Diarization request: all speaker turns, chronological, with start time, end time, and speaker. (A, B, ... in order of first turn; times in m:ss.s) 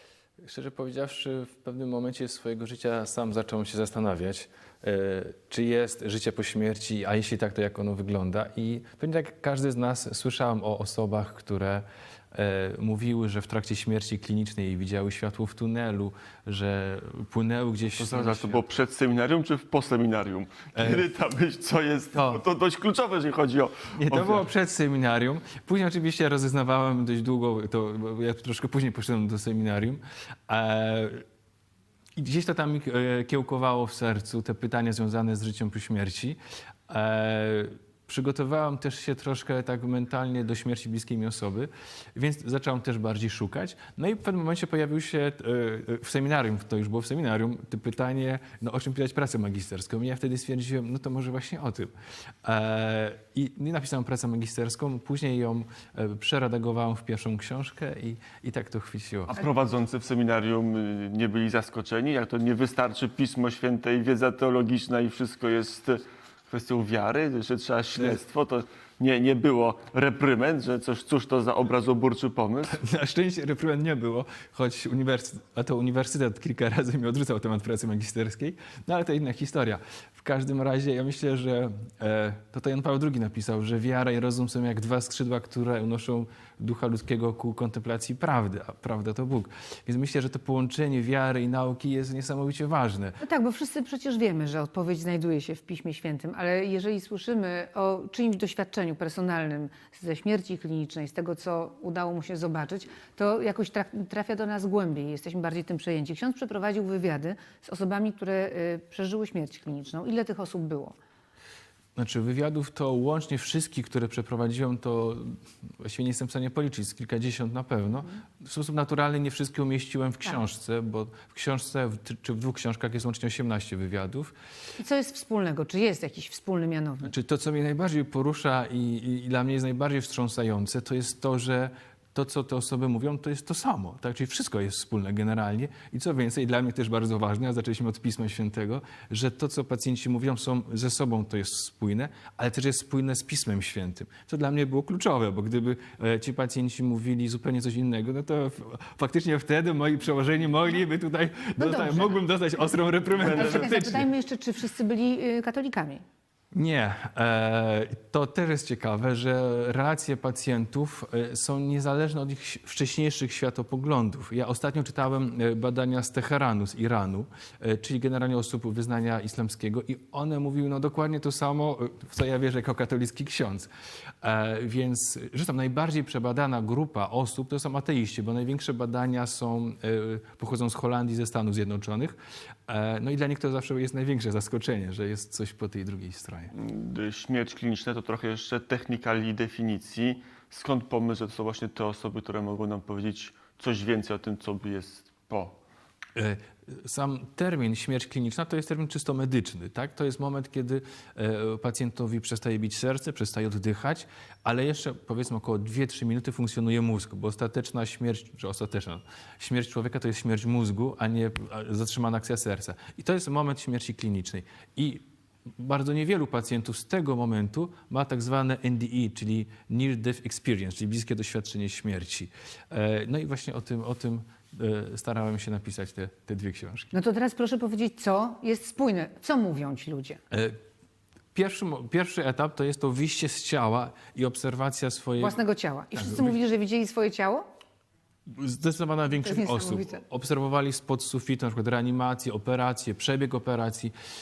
0:00.4-0:18.6 A
0:18.0-0:24.4 B
0:20.8-0:21.0 A
0:22.1-0:22.4 A
0:24.0-0:31.2 A
0:32.2-0:51.9 A
0:52.4-0:59.4 A
0:59.3-1:12.8 B
1:12.7-1:33.2 A
1:33.2-1:51.0 C
1:52.0-2:04.3 A
2:04.8-2:07.1 C
2:07.0-2:34.0 A
2:31.6-2:32.2 C
2:33.1-2:33.7 B
2:33.3-2:36.0 C
2:36.5-2:53.7 A
2:54.2-3:06.5 A
3:06.5-3:15.6 B
3:16.2-3:35.0 A
3:35.6-3:46.9 A
3:46.9-3:50.2 C
3:50.3-3:50.6 A
3:51.3-3:55.4 A
3:55.2-3:57.4 C
3:55.9-3:56.4 A
3:58.3-4:03.9 A
3:59.2-4:00.0 C